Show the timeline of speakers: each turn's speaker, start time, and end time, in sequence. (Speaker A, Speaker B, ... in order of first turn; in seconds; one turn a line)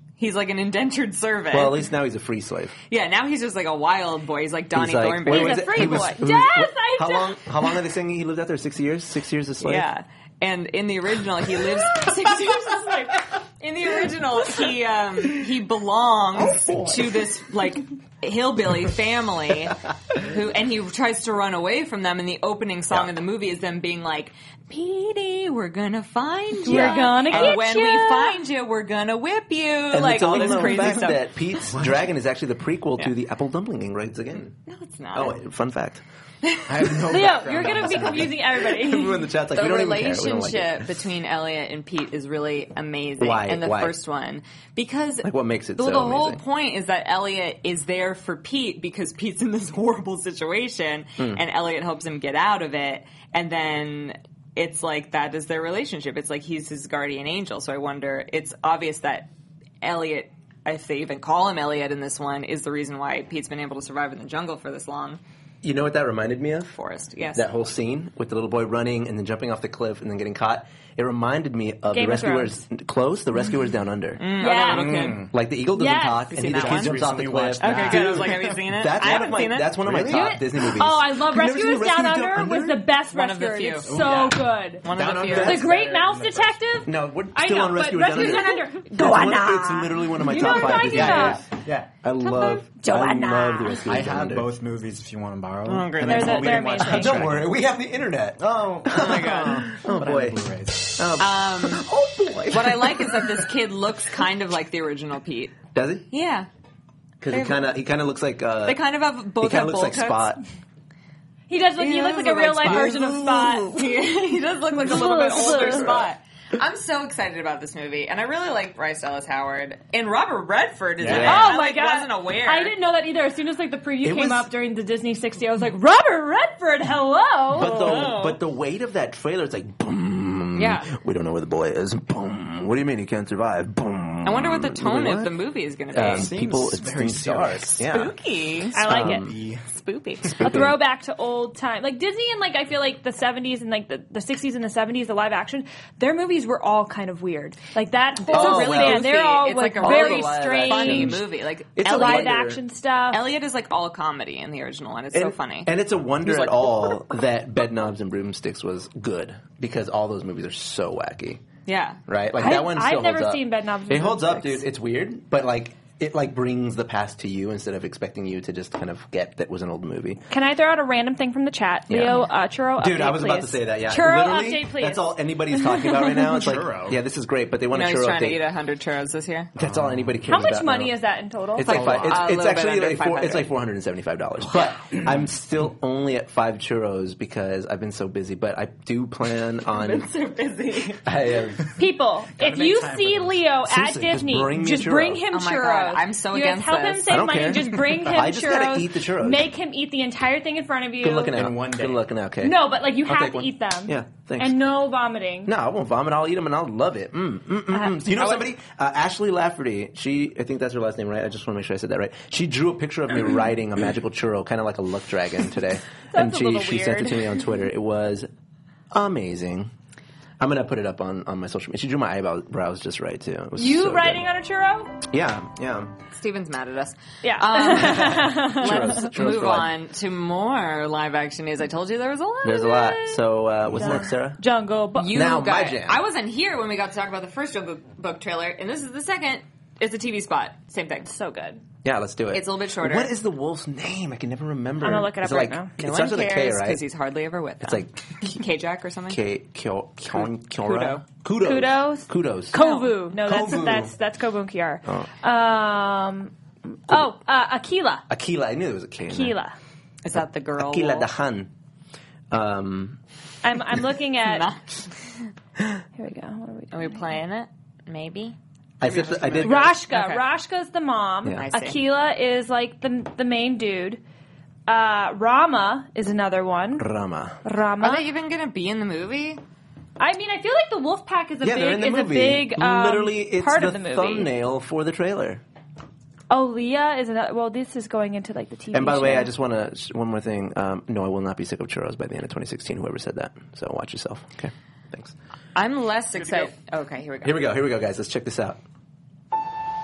Speaker A: 0.2-1.9
Speaker B: 1.5-2.8
Speaker A: 2.9-6.1
Speaker B: 4.7-9.9
Speaker C: 5.3-7.5
Speaker A: 9.6-31.3
Speaker B: 16.4-17.1
Speaker C: 26.6-28.4
Speaker B: 26.7-27.6
Speaker B: 29.9-34.5
Speaker A: 34.6-35.4
Speaker B: 35.1-36.0
Speaker D: 36.7-38.4
Speaker C: 37.1-39.3
Speaker B: 37.7-40.9
Speaker A: 39.5-59.3
Speaker B: 43.2-44.0
Speaker B: 45.2-46.4
Speaker B: 51.2-51.4
Speaker A: 59.8-65.2
Speaker B: 65.6-66.7
Speaker A: 66.7-67.5
Speaker B: 67.3-74.2
Speaker C: 71.9-72.6
Speaker A: 74.2-75.3
Speaker C: 74.4-75.1
Speaker D: 74.6-75.3
Speaker B: 75.3-82.8
Speaker C: 75.7-76.3
Speaker A: 76.3-77.0
Speaker D: 76.5-78.7
Speaker A: 77.6-80.0
Speaker D: 79.9-80.2
Speaker C: 80.1-84.8
Speaker A: 83.1-83.9
Speaker D: 83.8-86.5
Speaker A: 84.8-85.7
Speaker B: 85.3-85.6
Speaker C: 85.4-91.4
Speaker B: 86.8-94.5
Speaker D: 90.6-91.9
Speaker C: 92.2-93.8
Speaker D: 93.9-97.5
Speaker B: 95.7-103.5
Speaker C: 96.0-97.2
Speaker D: 98.4-101.0
Speaker A: 98.9-99.7
Speaker A: 101.2-101.9
Speaker A: 102.5-105.6
Speaker B: 105.7-106.1
Speaker A: 106.1-106.5
Speaker B: 107.2-108.8
Speaker A: 107.3-107.7
Speaker A: 108.7-110.3
Speaker B: 109.4-110.4
Speaker C: 111.5-114.1
Speaker A: 111.8-122.7
Speaker B: 112.7-113.2
Speaker C: 114.8-116.0
Speaker B: 115.0-116.1
Speaker D: 121.0-121.3
Speaker B: 121.0-121.5
Speaker C: 121.1-128.1
Speaker B: 124.0-124.5
Speaker B: 127.5-135.3
Speaker A: 127.6-128.4
Speaker A: 130.6-130.9
Speaker A: 134.2-136.4
Speaker B: 135.9-138.1
Speaker D: 136.2-137.9
Speaker A: 137.9-140.3
Speaker C: 138.7-139.3
Speaker D: 138.8-139.6
Speaker B: 138.9-139.3
Speaker B: 140.3-140.8
Speaker C: 140.4-151.2
Speaker A: 148.3-152.4
Speaker B: 148.3-149.1
Speaker B: 149.8-151.2
Speaker B: 151.8-152.6
Speaker C: 151.8-153.3
Speaker A: 153.1-156.9
Speaker B: 155.1-161.4
Speaker A: 161.7-162.0
Speaker B: 162.1-170.2
Speaker C: 162.4-164.7
Speaker C: 170.3-176.3
Speaker B: 171.9-172.2
Speaker B: 172.8-178.4
Speaker D: 176.4-177.0
Speaker A: 177.7-179.5
Speaker B: 179.6-180.9
Speaker D: 179.6-180.1
Speaker C: 180.3-181.8
Speaker B: 181.6-190.1
Speaker A: 181.6-183.5
Speaker D: 181.7-182.1
Speaker A: 189.7-191.1
Speaker B: 191.0-191.7
Speaker C: 191.8-201.3
Speaker D: 192.4-193.4
Speaker B: 193.7-195.2
Speaker A: 195.3-197.2
Speaker B: 197.1-199.5
Speaker B: 201.0-204.6
Speaker D: 201.3-202.0
Speaker C: 202.4-205.5
Speaker B: 205.4-218.3
Speaker C: 207.8-208.2
Speaker C: 216.1-217.6
Speaker B: 218.9-219.7
Speaker B: 220.4-224.3
Speaker C: 223.6-225.0
Speaker B: 225.0-225.9
Speaker A: 226.1-233.2
Speaker C: 227.2-229.0
Speaker B: 228.0-229.8
Speaker B: 232.4-234.4
Speaker C: 233.8-235.3
Speaker A: 235.0-241.1
Speaker B: 235.1-236.0
Speaker C: 241.1-241.6
Speaker B: 241.8-246.8
Speaker A: 242.3-243.1
Speaker C: 244.8-245.7
Speaker A: 245.3-249.2
Speaker B: 247.6-247.9
Speaker B: 249.1-252.6
Speaker A: 250.1-251.1
Speaker C: 251.4-256.3
Speaker A: 252.6-253.0
Speaker B: 253.1-253.9
Speaker C: 256.9-258.1
Speaker B: 258.1-259.4
Speaker C: 259.1-259.6
Speaker A: 260.0-261.1
Speaker B: 260.1-261.5
Speaker B: 262.3-263.0
Speaker C: 263.4-264.5
Speaker A: 264.2-265.3
Speaker C: 266.0-267.1
Speaker A: 266.7-270.3
Speaker B: 268.8-269.8
Speaker C: 269.4-274.0
Speaker A: 271.4-271.8
Speaker C: 274.7-276.9
Speaker B: 276.8-277.4
Speaker C: 277.4-278.1
Speaker A: 277.8-279.4
Speaker C: 280.0-284.3
Speaker B: 281.4-285.4
Speaker C: 286.3-289.3
Speaker B: 288.7-295.1
Speaker A: 295.6-297.5
Speaker B: 297.2-298.6